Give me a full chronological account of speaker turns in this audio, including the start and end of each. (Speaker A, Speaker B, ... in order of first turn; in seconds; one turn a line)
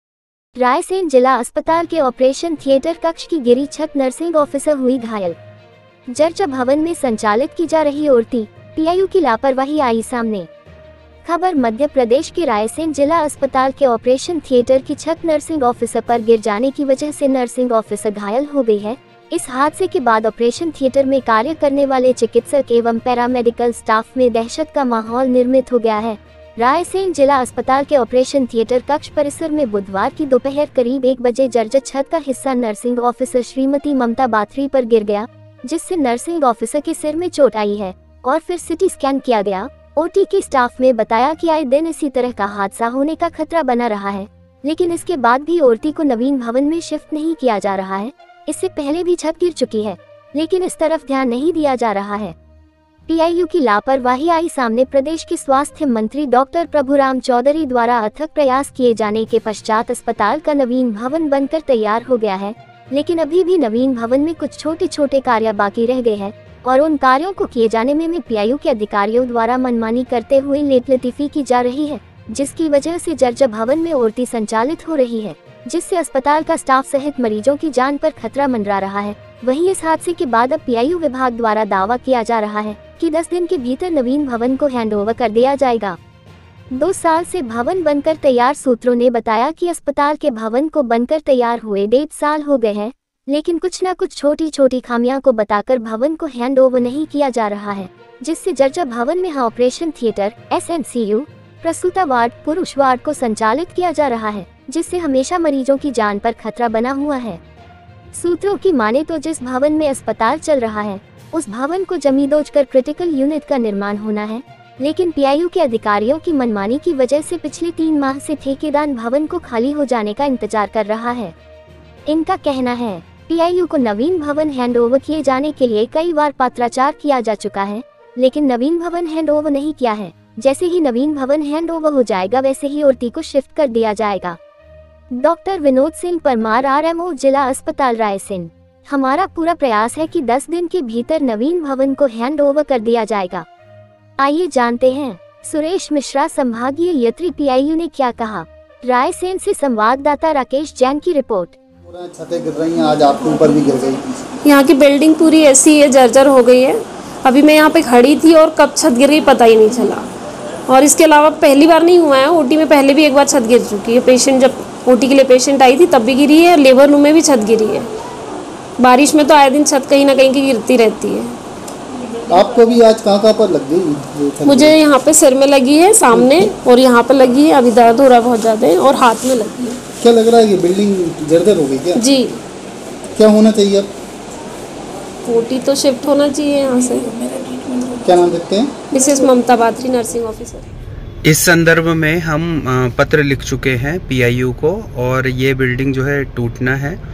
Speaker A: 0.6-5.4
Speaker A: 6.1-10.5
Speaker A: 11.2-52.4
Speaker A: 53.1-86.0
Speaker A: 86.7-107.4
Speaker A: 108.1-121.3
Speaker A: 122.1-134.4
Speaker A: 135.1-143.5
Speaker A: 144.2-151.6
Speaker B: 151.8-154.1
Speaker C: 154.4-160.1
Speaker C: 160.7-167.9
Speaker C: 168.8-171.4
Speaker B: 172.3-174.8
Speaker C: 174.5-179.8
Speaker B: 180.0-182.0
Speaker C: 181.9-182.4
Speaker B: 183.2-183.9
Speaker C: 185.2-187.1
Speaker B: 188.0-188.7
Speaker C: 188.9-190.7
Speaker D: 191.2-197.0